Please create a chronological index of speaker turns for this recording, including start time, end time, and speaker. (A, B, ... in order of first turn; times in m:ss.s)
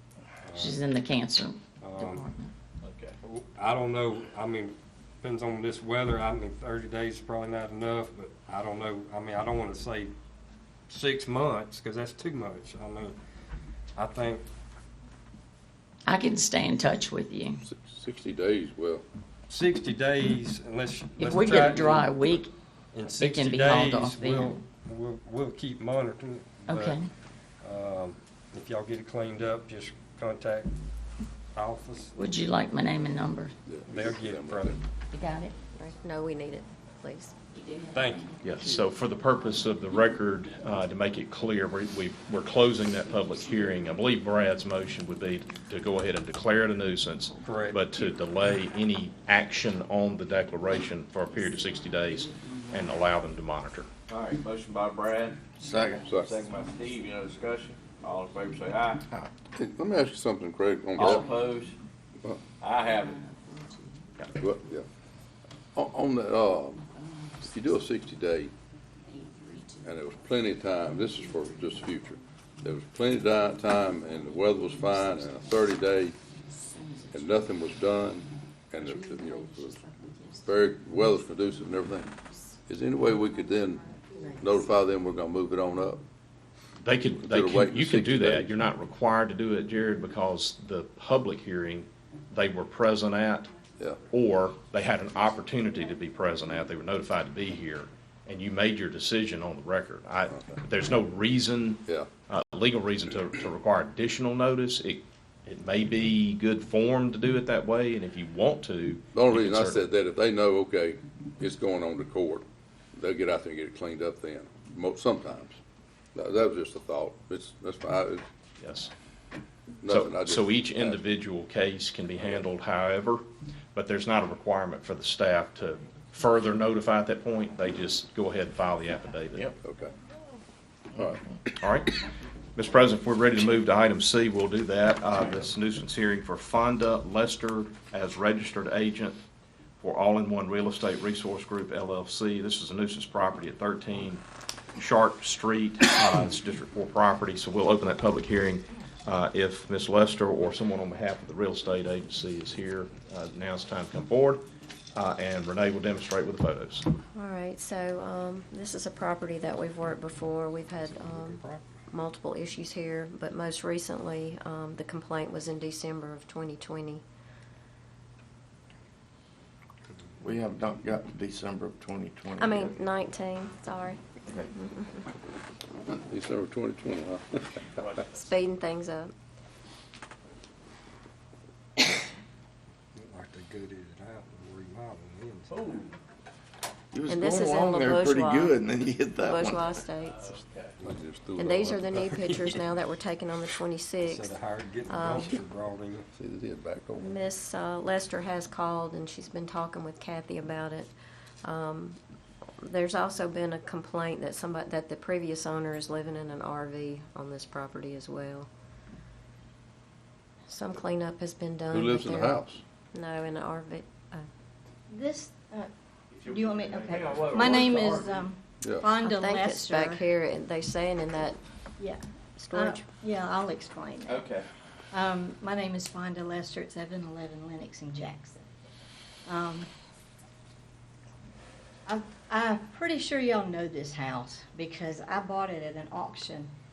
0:00.4-0:00.8 A
0:00.6-0:02.5 B
0:01.8-0:02.3 A
0:02.8-0:03.1 C
0:03.2-0:10.1 A
0:10.9-0:13.2 A
0:14.0-0:14.4 A
0:16.0-0:17.6 B
0:17.6-0:19.0 D
0:19.5-0:22.4 A
0:21.2-0:22.5 B
0:22.9-0:27.0 A
0:23.2-0:24.6 B
0:26.7-0:27.1 B
0:27.6-0:30.7 A
0:31.6-0:32.2 A
0:32.2-0:33.5 B
0:33.7-0:34.8 D
0:33.9-0:34.8 A
0:35.1-0:35.5 B
0:35.7-0:37.3 E
0:37.8-0:38.1 C
0:37.9-0:38.3 A
0:38.4-0:53.9 F
0:43.4-0:44.0 C
0:47.4-0:48.0 A
0:51.4-0:53.0 C
0:54.1-0:59.0 C
0:55.6-0:56.1 G
0:56.0-0:56.4 D
0:59.5-1:01.3 D
1:01.0-1:01.8 C
1:02.6-1:03.9 C
1:04.4-1:04.9 D
1:05.8-1:06.8 D
1:06.9-1:07.9 C
1:07.4-1:08.5 D
1:09.1-1:09.9 C
1:09.8-1:16.2 D
1:10.7-1:12.1 C
1:13.2-1:17.6 C
1:17.1-1:19.8 D
1:18.8-1:21.0 C
1:20.4-1:22.1 D
1:22.7-1:23.8 D
1:23.3-1:24.7 C
1:24.4-1:26.0 D
1:26.8-1:33.5 F
1:27.2-1:28.6 D
1:33.8-1:34.0 D
1:34.1-1:49.9 F
1:49.1-1:55.6 D
1:56.1-1:58.2 D
1:58.6-1:58.9 F
1:59.8-2:01.0 D
1:59.8-2:03.2 F
2:02.2-2:02.4 D
2:03.7-2:09.5 F
2:09.6-2:09.9 D
2:11.0-2:11.6 D
2:11.6-2:11.9 F
2:12.6-2:19.2 F
2:19.8-2:24.2 F
2:24.8-2:34.4 F
2:35.0-2:36.9 F
2:37.1-2:47.0 E
2:40.8-2:41.6 A
2:50.2-2:52.8 G
2:52.4-2:54.0 E
2:54.5-2:55.0 E
2:55.9-2:57.8 D
2:57.8-2:58.0 C
2:58.1-2:59.1 E
3:03.0-3:05.5 A
3:05.5-3:06.0 C
3:06.9-3:09.7 G
3:07.1-3:08.6 E
3:09.2-3:10.2 E
3:10.1-3:10.8 C
3:10.8-3:12.1 D
3:11.3-3:15.4 E
3:12.0-3:12.6 A
3:14.0-3:16.1 A
3:16.2-3:17.2 D
3:17.0-3:20.9 E
3:21.4-3:22.0 E
3:22.6-3:28.5 E
3:30.5-3:34.2 E
3:31.7-3:32.6 D
3:34.9-3:35.7 H
3:36.2-3:38.3 C
3:36.2-3:40.1 H
3:38.6-3:39.0 D
3:39.0-3:41.4 E
3:42.4-3:42.9 E
3:42.5-3:44.2 H
3:44.1-3:44.5 C
3:44.9-3:48.4 H
3:49.3-3:49.7 H
3:51.9-3:56.5 H